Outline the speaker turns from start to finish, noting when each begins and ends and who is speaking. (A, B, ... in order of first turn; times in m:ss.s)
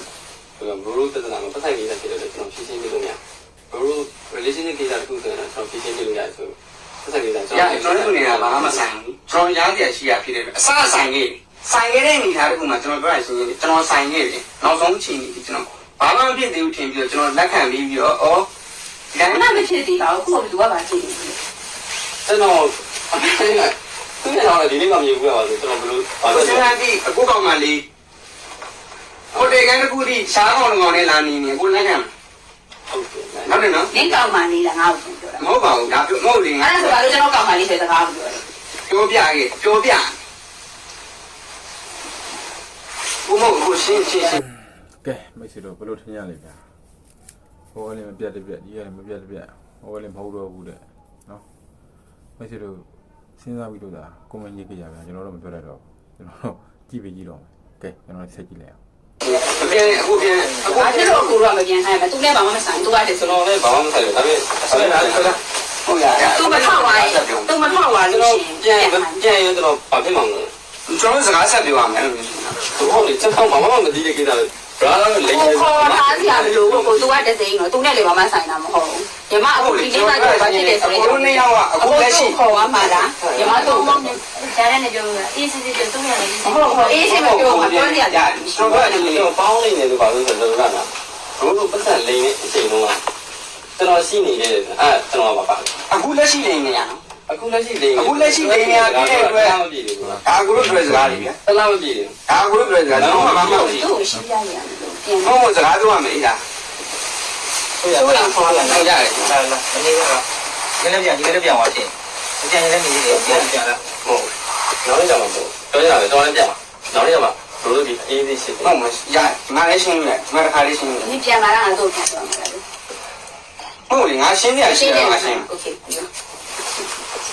0:00.6-0:03.2 A
0:03.7-0:08.8 A
0:07.5-0:18.5 B
0:19.1-0:19.6 B
0:19.2-0:21.4 C
0:22.2-0:26.8 A
0:26.2-0:27.8 B
0:29.3-0:29.6 A
0:29.3-0:32.1 B
0:32.9-0:33.6 A
0:33.4-0:33.9 B
0:33.9-0:35.4 C
0:35.4-0:37.0 B
0:36.6-0:38.4 C
0:38.9-0:40.2 B
0:43.2-0:44.4 B
0:44.4-0:46.7 D
0:47.7-0:51.5 D
0:52.4-0:58.8 D
0:59.2-1:01.0 B
0:59.2-1:01.3 E
1:00.6-1:03.3 C
1:03.1-1:05.4 A
1:04.6-1:07.8 B
1:06.1-1:09.2 C
1:08.1-1:10.5 A
1:10.9-1:13.1 B
1:12.7-1:17.3 A
1:15.2-1:24.0 C
1:19.5-1:23.5 B
1:23.2-1:24.2 A
1:23.4-1:27.0 F
1:26.4-1:29.1 C
1:26.6-1:29.3 B
1:28.6-1:33.0 A
1:33.8-1:35.8 A
1:35.9-1:37.0 B
1:37.3-1:40.2 A
1:38.0-1:39.6 B
1:40.0-1:41.3 D
1:40.2-1:41.4 B
1:41.4-1:42.2 A
1:42.3-1:43.9 B
1:42.9-1:44.2 D
1:42.9-1:43.8 A
1:43.2-1:45.5 C
1:45.2-1:46.4 B
1:47.8-1:50.2 E
1:47.9-1:48.5 C
1:48.3-1:49.4 B
1:50.8-1:53.8 E
1:53.9-1:58.7 A
1:58.6-2:01.2 B
2:01.0-2:02.6 C
2:03.9-2:05.5 B
2:04.6-2:06.1 C